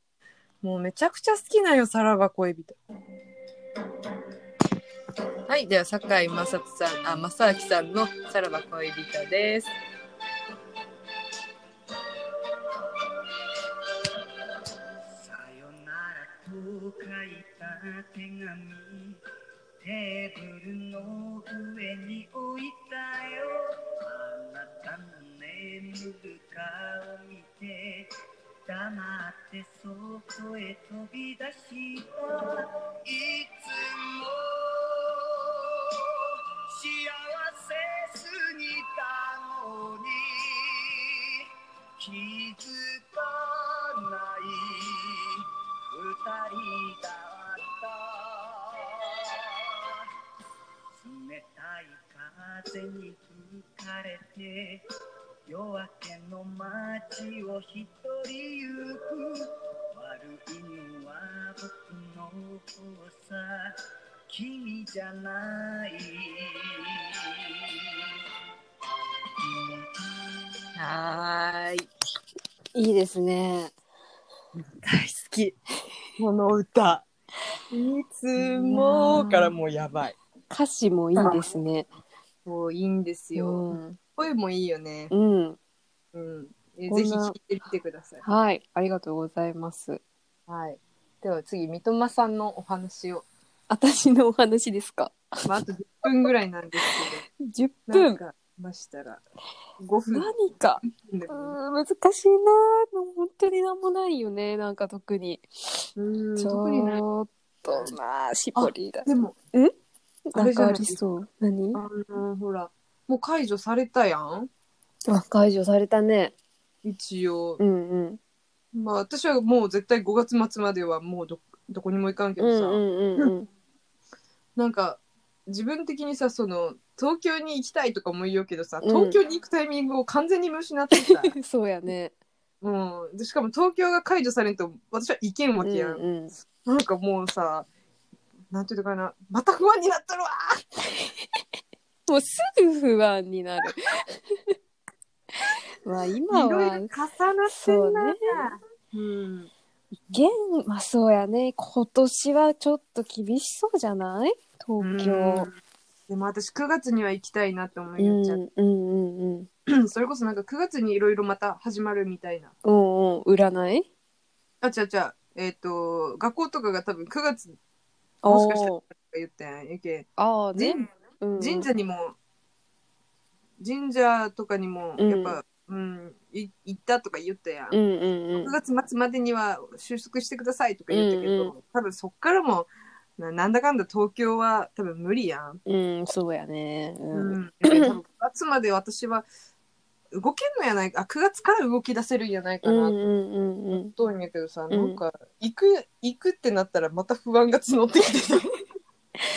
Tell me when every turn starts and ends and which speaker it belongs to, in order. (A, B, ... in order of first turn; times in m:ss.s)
0:00.6-0:02.8 A
0:05.5-0:09.7 A
0:15.2-0:19.2 B
0:19.8-0:28.1 B
0:28.6-0:41.4 B
0:42.0-0:50.1 B
0:51.0-0:54.8 B
0:55.5-1:03.7 B
1:04.3-1:07.7 B
1:09.5-1:09.7 B
1:10.8-1:11.9 A
1:12.8-1:13.7 C
1:14.8-1:15.6 A
1:16.2-1:17.1 A
1:17.7-1:20.2 A
1:18.6-1:19.5 C
1:20.5-1:21.9 C
1:21.2-1:21.4 A
1:22.4-1:23.6 A
1:23.4-1:24.0 C
1:24.2-1:25.1 A
1:25.1-1:25.6 C
1:26.1-1:28.2 A
1:26.9-1:27.4 C
1:28.2-1:30.0 C
1:30.5-1:33.3 A
1:33.7-1:35.5 C
1:35.4-1:37.2 A
1:36.8-1:38.2 C
1:37.9-1:39.2 A
1:39.8-1:41.6 A
1:40.1-1:45.8 C
1:46.0-1:47.0 A
1:46.4-1:49.7 C
1:48.6-1:49.4 A
1:50.3-1:51.8 C
1:50.4-1:51.0 A
1:51.7-1:54.5 A
1:55.1-1:56.3 C
1:56.8-1:57.6 A
1:57.6-1:58.2 C
1:58.7-2:03.3 A
2:02.4-2:03.5 C
2:04.6-2:11.4 A
2:08.8-2:09.2 C
2:11.0-2:12.1 C
2:12.6-2:16.0 A
2:15.6-2:16.3 C
2:16.6-2:17.7 A
2:18.5-2:20.6 A
2:22.1-2:24.5 C
2:25.8-2:26.9 C
2:26.3-2:29.5 A
2:27.5-2:28.2 C
2:30.1-2:35.5 C
2:34.8-2:35.5 A
2:36.1-2:38.4 A
2:38.0-2:39.5 C
2:39.7-2:42.5 A
2:42.6-2:43.9 C
2:44.6-2:47.6 A
2:48.2-2:48.8 C
2:48.3-2:50.8 A
2:50.2-2:51.7 C
2:51.4-2:52.2 A
2:53.6-2:57.8 A
2:55.0-2:55.4 C
2:57.7-2:58.5 C
2:58.4-3:05.6 A
3:00.9-3:01.5 C
3:05.6-3:08.0 C
3:07.1-3:09.3 A
3:10.1-3:13.0 A
3:12.6-3:13.9 C
3:13.7-3:18.5 A
3:14.7-3:15.0 C